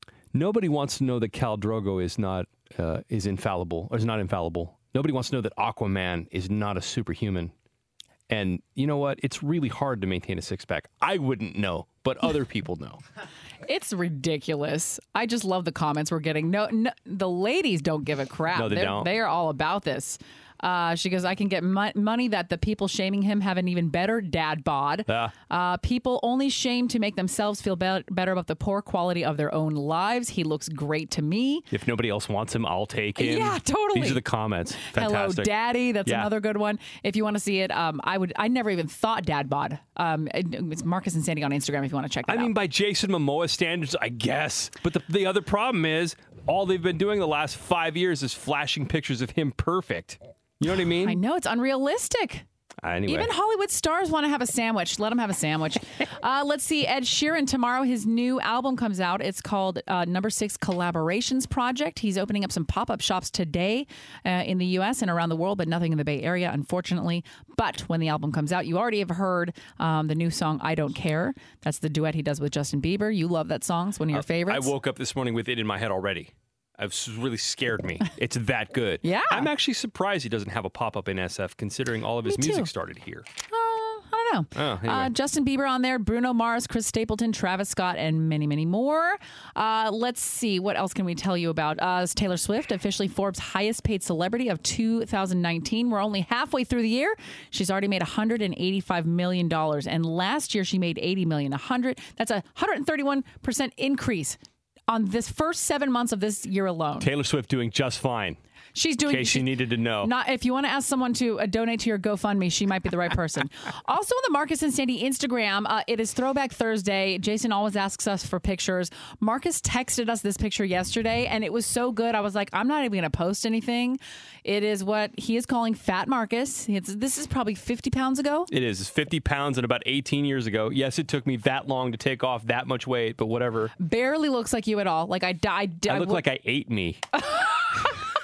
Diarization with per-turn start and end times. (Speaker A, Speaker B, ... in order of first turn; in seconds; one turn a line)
Speaker A: 0.3-7.5
Speaker A: 8.3-13.0
Speaker B: 13.7-31.7
Speaker A: 18.5-19.1
Speaker A: 25.1-25.3
Speaker A: 31.7-35.5
Speaker B: 33.2-34.2
Speaker B: 34.9-42.5
Speaker A: 36.0-36.3
Speaker A: 42.3-51.2
Speaker B: 51.0-52.4
Speaker A: 52.8-53.3
Speaker B: 53.1-74.7
Speaker A: 74.1-83.3
Speaker B: 79.0-79.5
Speaker B: 82.3-82.7
Speaker B: 83.5-104.4
Speaker A: 84.5-85.1
Speaker B: 104.9-107.1
Speaker A: 107.0-108.4
Speaker B: 108.8-128.5
Speaker A: 109.1-110.1
Speaker A: 128.5-133.7
Speaker B: 133.8-136.2
Speaker A: 135.9-137.0
Speaker B: 137.3-138.0